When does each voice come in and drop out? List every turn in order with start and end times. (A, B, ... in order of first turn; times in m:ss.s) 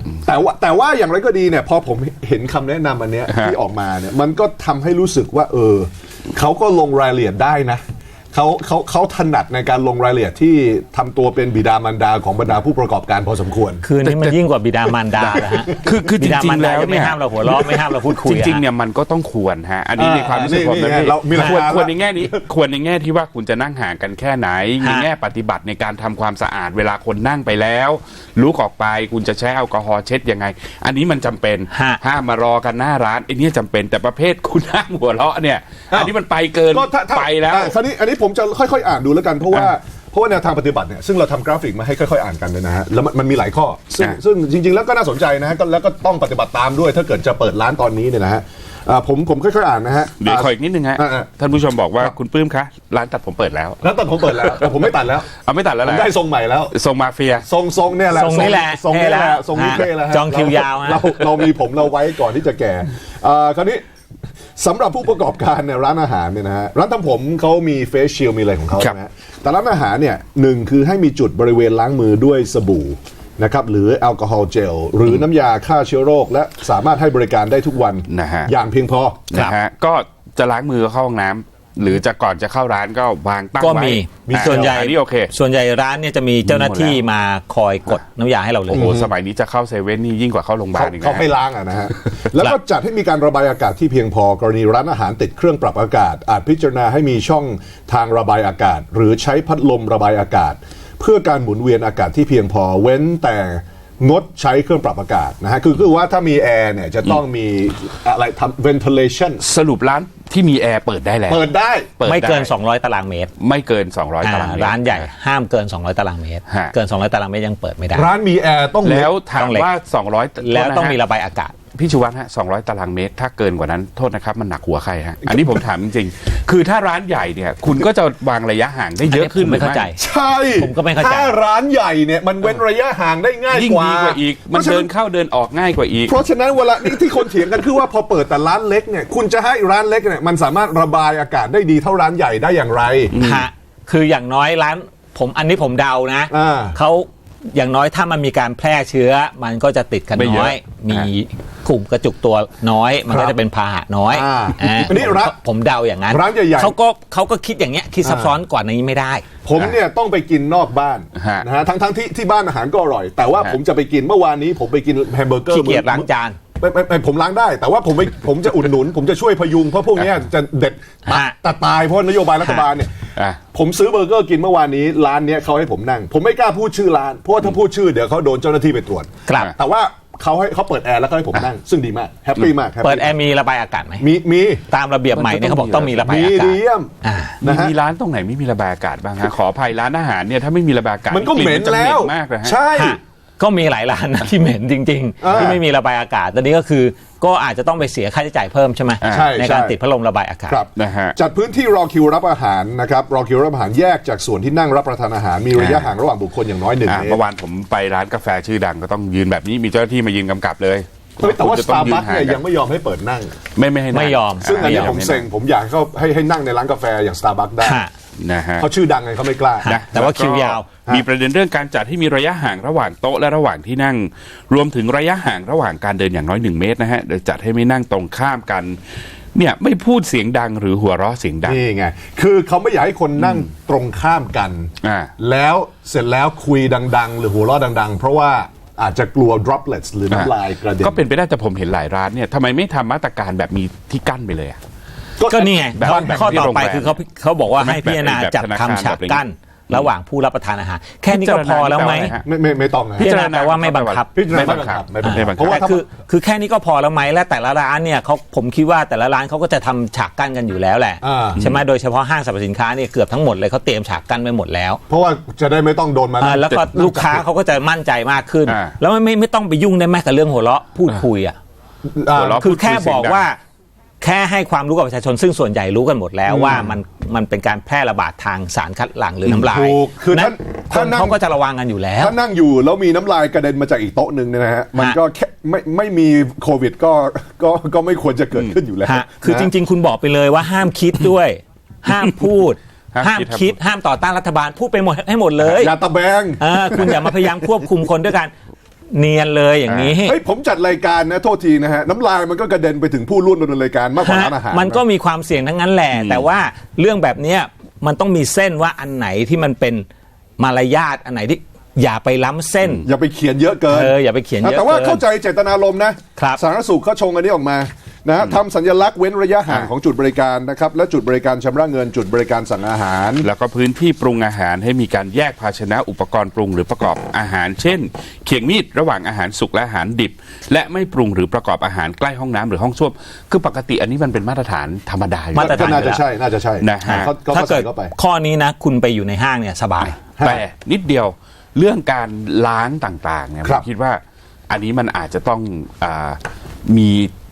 0:00.2-0:13.8 A
0:03.3-0:03.6 B
0:13.8-0:18.6 C
0:14.0-0:14.4 B
0:15.2-0:37.8 B
0:15.4-0:15.9 A
0:20.0-0:22.4 A
0:24.8-0:25.1 C
0:31.7-0:32.0 C
0:36.7-0:51.3 A
0:50.2-0:53.8 B
0:53.8-0:55.3 A
0:54.4-0:54.8 B
0:55.4-0:56.1 B
0:55.8-0:56.7 A
0:56.7-0:57.5 B
0:57.4-1:03.8 A
0:58.1-1:01.2 C
1:04.6-1:19.3 A
1:18.1-1:18.5 B
1:19.3-1:25.3 B
1:23.6-1:29.0 C
1:24.3-1:24.8 A
1:26.4-1:27.0 B
1:28.7-1:29.1 A
1:28.7-1:31.2 B
1:30.7-1:49.4 A
1:49.4-1:51.5 B
1:51.3-1:51.9 A
1:52.0-1:52.5 B
1:52.0-1:53.3 C
1:53.4-1:55.1 B
1:54.2-1:58.1 C
1:56.5-1:56.7 B
1:57.9-1:59.1 A
1:58.8-2:01.0 B
1:59.4-1:59.7 C
2:00.4-2:01.6 C
2:01.8-2:09.9 B
2:05.2-2:05.6 A
2:09.1-2:10.0 C
2:10.0-2:14.9 A
2:10.6-2:11.4 C
2:13.5-2:16.2 B
2:16.1-2:23.2 A
2:23.1-2:23.5 B
2:23.2-2:39.2 C
2:26.3-2:26.8 A
2:30.2-2:31.1 B
2:33.1-2:33.4 A
2:34.1-2:35.4 A
2:36.1-2:36.8 A
2:38.0-2:38.3 A
2:39.4-2:46.1 A
2:41.2-2:41.5 B
2:45.5-2:46.4 C
2:46.6-2:53.0 A
2:51.1-2:51.4 C
2:53.5-3:03.1 A
2:59.3-2:59.5 C
3:02.8-3:04.0 C
3:04.0-3:04.6 A
3:04.7-3:07.4 C
3:05.1-3:06.0 B
3:05.8-3:07.8 A
3:07.4-3:12.6 B
3:11.1-3:13.0 A
3:12.7-3:20.6 C
3:15.2-3:15.6 A
3:19.0-3:19.4 B
3:19.1-3:19.8 A
3:20.5-3:27.2 A
3:20.8-3:21.2 B
3:25.6-3:25.9 B
3:26.9-3:32.4 B
3:31.2-3:33.4 A
3:33.6-3:35.3 B
3:33.9-3:35.0 C
3:34.4-3:37.8 A
3:37.6-3:37.9 C
3:38.2-3:38.7 B
3:38.6-3:39.7 A
3:39.6-3:40.7 C
3:39.6-3:48.8 B
3:49.4-3:51.6 B
3:51.5-4:01.0 A
3:54.8-3:55.1 B
4:00.1-4:04.6 B
4:05.2-4:06.5 A
4:05.3-4:12.1 C
4:05.7-4:07.0 B
4:07.6-4:09.9 B
4:11.1-4:12.2 B
4:12.2-4:13.1 A
4:13.0-4:15.7 B
4:13.0-4:24.8 C
4:14.2-4:15.8 A
4:21.0-4:21.4 A
4:24.9-4:27.1 A
4:26.2-4:31.4 C
4:26.5-4:27.1 B
4:28.5-4:28.7 B
4:31.9-4:32.4 A
4:32.1-4:33.2 B
4:32.4-4:33.4 C
4:34.0-4:42.2 C
4:36.3-4:36.7 A
4:39.3-4:41.2 A
4:42.0-4:49.5 A
4:48.8-4:55.8 C
4:52.9-4:53.5 B
4:55.4-4:57.7 A
4:56.4-4:58.3 C
4:58.9-5:00.2 C
4:59.7-5:00.0 B
5:00.0-5:04.8 A
5:04.0-5:09.9 C
5:05.9-5:06.3 B
5:10.4-5:12.9 C
5:12.8-5:23.3 A
5:13.7-5:15.0 C
5:16.2-5:16.4 C
5:23.2-5:36.0 B
5:35.4-5:37.9 A
5:35.4-5:36.0 C
5:36.6-5:37.1 B
5:36.8-5:40.0 C
5:40.1-5:47.1 B